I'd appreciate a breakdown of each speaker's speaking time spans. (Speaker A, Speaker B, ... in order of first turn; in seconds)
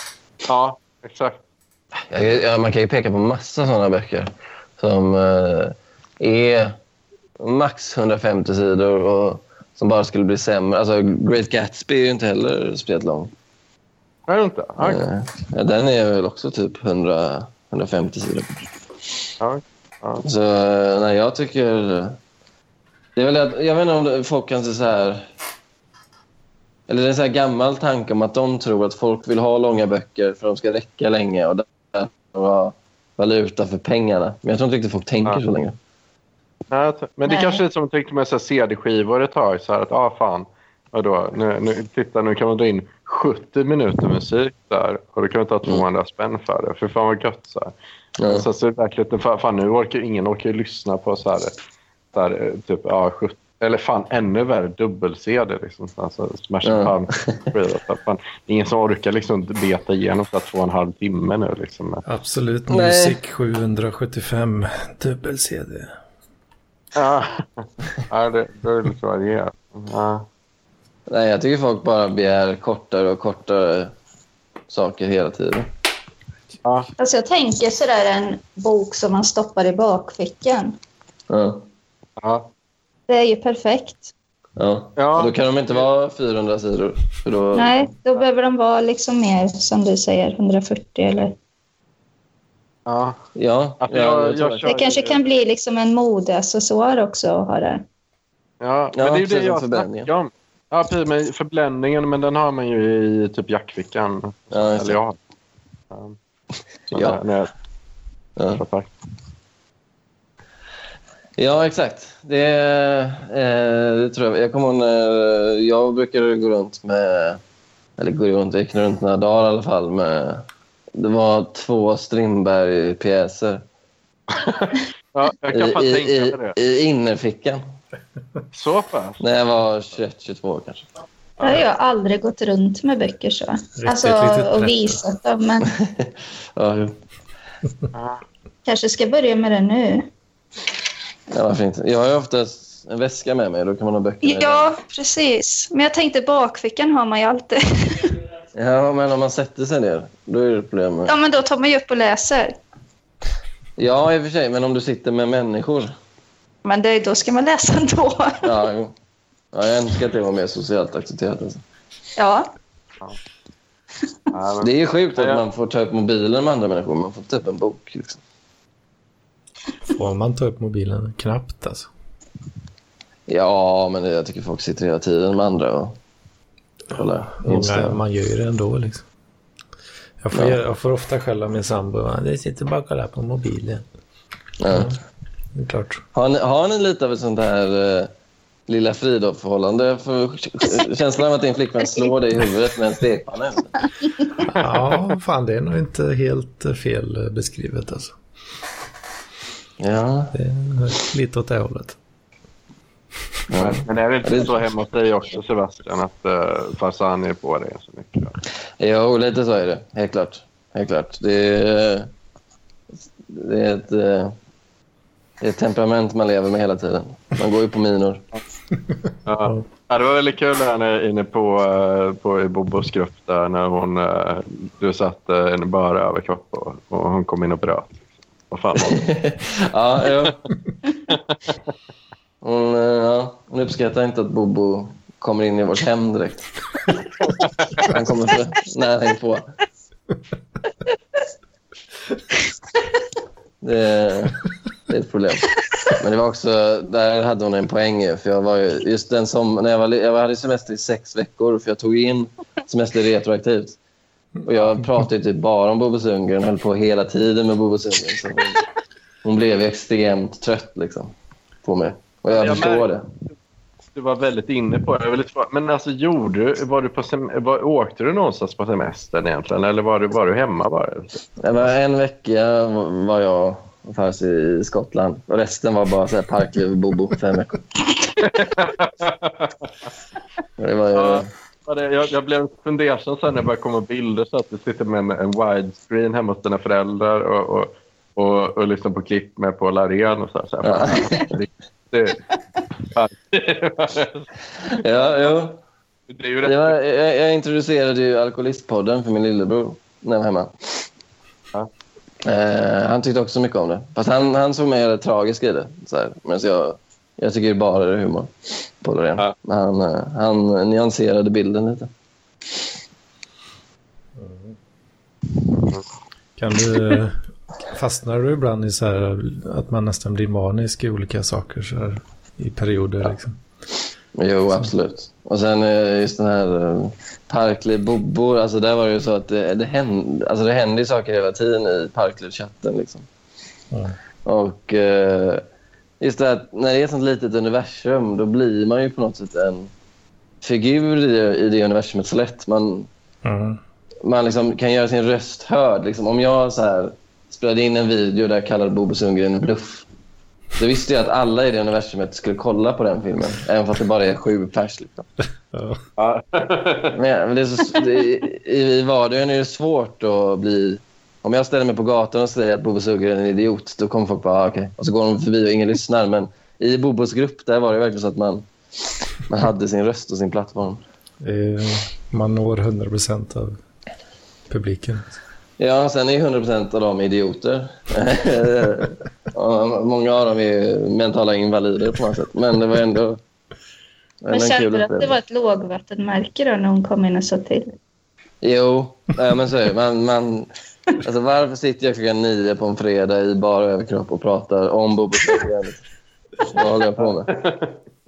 Speaker A: 0.5-1.4, 14.3-15.1, 19.4-20.2, 36.7-47.7, 48.2-51.5, 52.1-62.0, 66.9-70.2, 82.2-82.5, 85.0-85.3, 92.8-93.2, 93.8-95.2, 98.6-105.2, 105.9-106.2, 106.9-107.5, 108.5-108.9, 124.3-126.5, 128.5-129.2, 137.9-138.2, 164.3-165.4, 203.6-208.4, 219.2-229.1, 231.1-231.3, 262.3-262.9, 263.9-271.3, 278.2-279.5, 280.9-292.2, 292.9-294.2, 296.1-296.7, 356.0-357.0, 397.3-397.7
Speaker B: 2.1-6.8, 7.4-13.3, 14.8-18.6, 20.2-22.2, 23.1-25.3, 26.9-35.8, 48.2-48.5, 56.6-57.5, 62.7-63.2, 71.1-73.9, 74.7-75.7, 81.3-81.6, 84.6-87.9, 93.3-94.7, 98.9-100.1, 104.5-105.0, 106.9-107.2, 108.4-108.6, 111.4-117.4, 118.0-123.6, 125.5-127.6, 129.2-130.8, 135.8-136.9, 141.3-144.7, 148.5-151.1, 153.8-155.9, 158.4-158.9, 159.5-161.6, 164.6-168.2, 173.3-176.0, 176.9-178.0, 184.6-184.9, 186.1-188.1, 188.7-193.8, 199.8-200.3, 203.5-204.5, 208.8-212.1, 213.2-214.3, 215.4-218.2, 228.9-230.4, 232.4-236.5, 237.8-239.5, 243.6-253.8, 254.4-258.6, 259.2-261.1, 261.6-263.1, 271.4-277.6, 280.6-281.3, 290.6-291.3, 294.7-295.6, 296.4-300.9, 302.2-311.9, 324.1-333.1, 334.2-335.4, 336.0-339.7, 340.4-342.9, 344.0-349.9, 350.6-355.1, 356.9-368.5, 369.3-370.8, 375.6-383.2, 384.2-385.2, 388.4-395.8, 396.5-397.3
Speaker C: 37.3-37.6, 77.0-80.8, 83.1-84.1, 87.5-91.3, 94.7-97.8, 131.4-135.7, 138.6-140.1, 144.2-148.2, 151.1-152.6, 156.6-158.4, 162.2-162.5, 384.3-387.7
Speaker D: 62.0-65.9, 133.8-135.0, 169.9-171.9, 177.4-179.0, 180.2-183.8, 184.7-185.0, 185.5-186.0, 194.4-198.2, 200.3-202.0, 314.2-314.6, 316.4-323.4, 343.2-343.6, 355.5-355.8, 371.2-373.6, 374.5-375.1